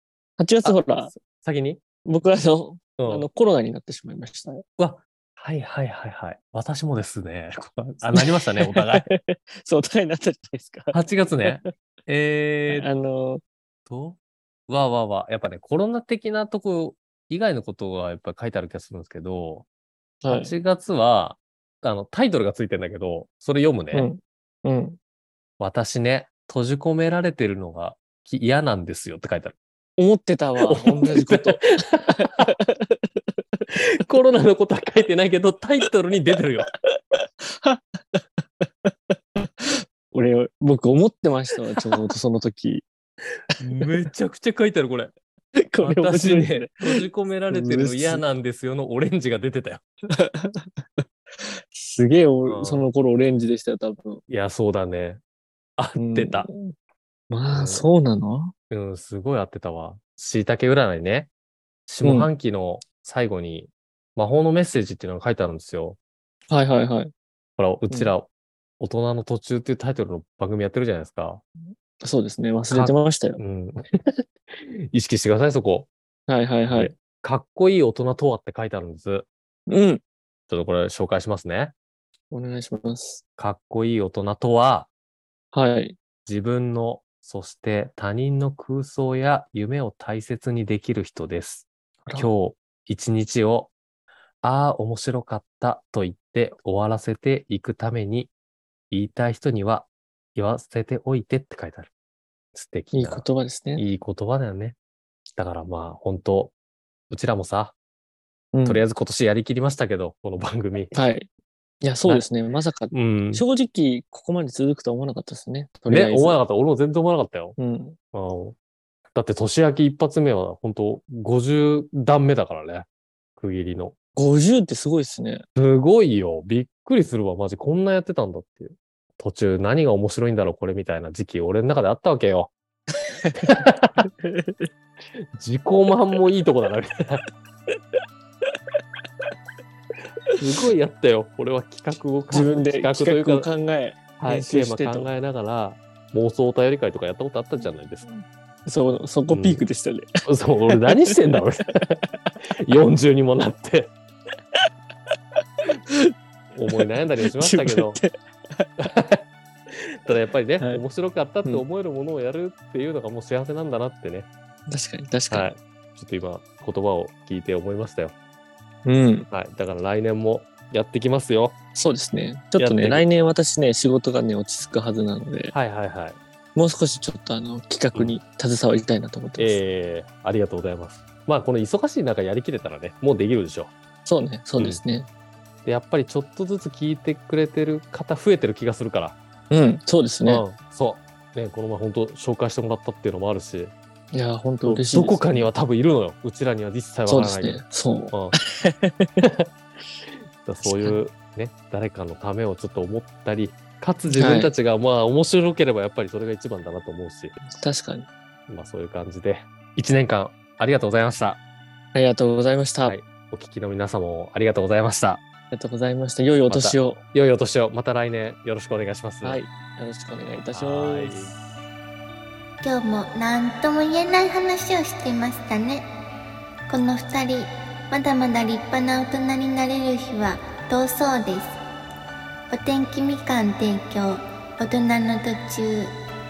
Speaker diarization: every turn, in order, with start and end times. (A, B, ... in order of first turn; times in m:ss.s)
0:00.4-0:01.1 A
0:00.6-0:01.8 B
0:02.0-0:04.6 A
0:03.0-0:03.3 B
0:04.8-0:09.1 B
0:08.1-0:11.7 A
0:10.9-0:12.9 B
0:12.7-0:13.4 A
0:13.9-0:19.6 B
0:20.2-0:20.5 A
0:20.3-0:24.1 B
0:23.9-0:25.0 A
0:25.6-0:29.5 B
0:30.0-0:33.6 A
0:30.6-0:32.5 B
0:33.7-0:36.7 B
0:37.4-0:42.8 A
0:43.6-0:45.1 B
0:45.6-0:48.2 A
0:45.8-0:49.8 B
0:50.1-0:54.2 A
0:52.4-0:52.9 B
0:54.3-0:55.2 B
0:55.8-0:56.5 B
0:56.0-0:56.7 A
0:57.3-0:58.5 A
0:57.5-0:57.8 B
0:58.7-1:01.3 B
1:01.9-1:06.0 B
1:02.0-1:02.3 A
1:06.5-1:07.1 A
1:07.6-1:08.3 B
1:08.8-1:11.4 B
1:12.0-1:13.4 A
1:12.7-1:15.9 B
1:16.3-1:16.9 A
1:16.7-1:19.2 B
1:19.7-1:20.0 A
1:20.5-1:21.7 B
1:22.3-1:23.2 A
1:23.4-1:24.9 B
1:25.5-1:26.0 A
1:26.2-1:33.7 B
1:34.4-1:38.3 B
1:38.9-1:41.9 B
1:42.5-1:44.8 B
1:42.9-1:43.8 A
1:45.3-1:46.5 B
1:47.1-1:47.7 B
1:48.5-1:48.8 A
1:48.6-1:50.9 B
1:50.9-1:51.3 A
1:51.8-1:56.4 A
1:52.9-1:53.4 B
1:55.9-1:57.6 B
1:57.6-1:58.0 A
1:58.1-1:58.6 B
1:59.1-2:03.9 B
2:04.2-2:05.4 A
2:05.6-2:12.5 B
2:13.2-2:14.7 A
2:13.4-2:14.1 B
2:15.2-2:17.2 B
2:20.4-2:23.5 B
2:22.3-2:25.1 A
2:24.2-2:28.1 B
2:28.0-2:31.1 A
2:29.3-2:29.6 B
2:30.2-2:32.0 B
2:32.6-2:33.9 B
2:36.5-2:38.0 B
2:36.7-2:38.7 A
2:38.8-2:44.3 B
2:44.7-2:45.5 A
2:45.3-2:48.1 B
2:48.8-2:49.3 A
2:49.3-2:51.5 B
2:51.7-2:55.5 A
2:52.6-2:53.0 B
2:55.5-2:56.2 B
2:56.6-2:59.6 A
2:59.4-3:03.7 B
3:04.0-3:05.1 A
3:05.6-3:09.1 B
3:09.5-3:10.4 A
3:10.2-3:13.7 B
3:14.1-3:15.5 A
3:14.6-3:18.4 B
3:17.1-3:19.2 A
3:20.1-3:27.4 B
3:20.6-3:21.0 A
3:24.1-3:24.5 A
3:27.4-3:28.1 A
3:28.5-3:31.4 B
3:31.9-3:32.9 A
3:32.8-3:35.2 B
3:35.5-3:37.0 A
3:36.5-3:39.4 B
3:39.2-3:41.4 A
3:40.5-3:41.3 B
3:42.6-3:45.8 C
3:46.7-3:51.6 C
3:52.5-3:55.9 C